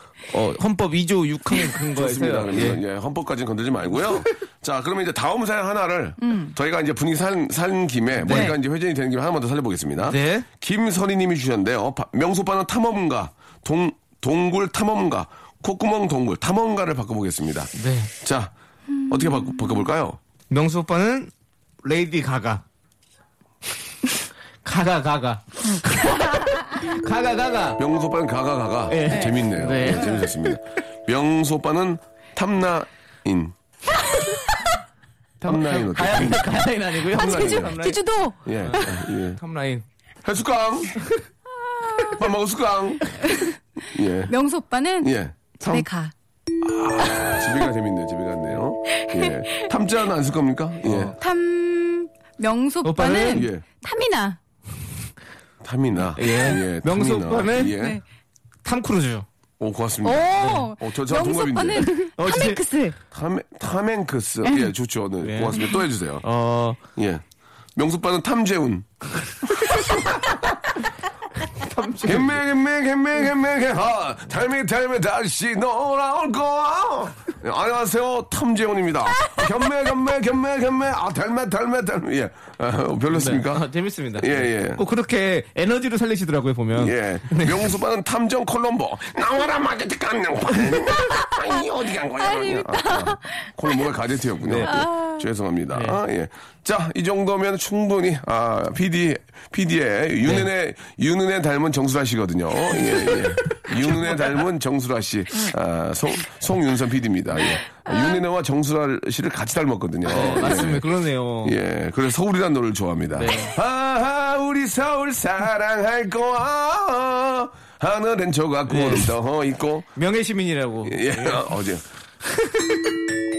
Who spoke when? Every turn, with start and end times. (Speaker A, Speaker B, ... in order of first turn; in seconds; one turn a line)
Speaker A: 0.3-2.8
Speaker B: 1.9-18.5
Speaker C: 6.2-6.5
Speaker A: 8.2-8.6
Speaker A: 10.0-10.5
Speaker A: 17.8-18.1
Speaker C: 18.9-19.7
Speaker B: 19.1-20.2
Speaker A: 20.5-21.3
Speaker A: 21.8-22.6
Speaker A: 24.6-27.8
Speaker B: 27.8-33.5
Speaker A: 28.9-30.6
Speaker A: 35.4-38.0
Speaker B: 35.4-36.5
Speaker B: 37.1-37.8
Speaker C: 37.1-39.0
Speaker B: 38.5-39.4
Speaker A: 38.6-39.8
Speaker B: 40.2-41.0
Speaker C: 41.8-42.2
Speaker B: 42.1-43.1
Speaker C: 43.2-43.6
Speaker B: 43.9-44.3
Speaker C: 44.3-46.1
Speaker B: 45.0-45.9
Speaker B: 46.6-51.1
Speaker C: 48.9-49.7
Speaker A: 50.8-51.1
Speaker C: 51.2-54.4
Speaker A: 52.8-53.5
Speaker B: 53.3-53.6
Speaker B: 55.6-58.0
Speaker A: 56.2-57.8
Speaker C: 57.8-58.0
Speaker A: 58.6-59.3
Speaker B: 59.6-62.0
Speaker C: 60.0-63.0
Speaker A: 60.4-60.7
Speaker A: 62.2-62.7
Speaker B: 63.1-66.2
Speaker C: 64.5-64.7
Speaker A: 65.2-65.7
Speaker A: 66.2-66.8
Speaker B: 67.0-67.2
Speaker B: 67.8-68.9
Speaker B: 69.4-70.1
Speaker A: 69.7-70.2
Speaker A: 71.5-72.4
Speaker B: 72.0-83.7
Speaker A: 83.1-87.7
Speaker B: 84.2-84.8
Speaker B: 86.8-110.9
Speaker C: 91.0-91.6
Speaker C: 92.2-93.7
Speaker A: 94.5-94.8
Speaker C: 94.6-95.2
Speaker A: 95.7-96.0
Speaker C: 107.9-108.2
Speaker A: 110.1-111.6
Speaker B: 111.4-119.9
Speaker A: 113.2-113.5
Speaker A: 118.7-119.1
Speaker A: 120.0-121.5
Speaker B: 120.8-121.8
Speaker A: 122.2-123.0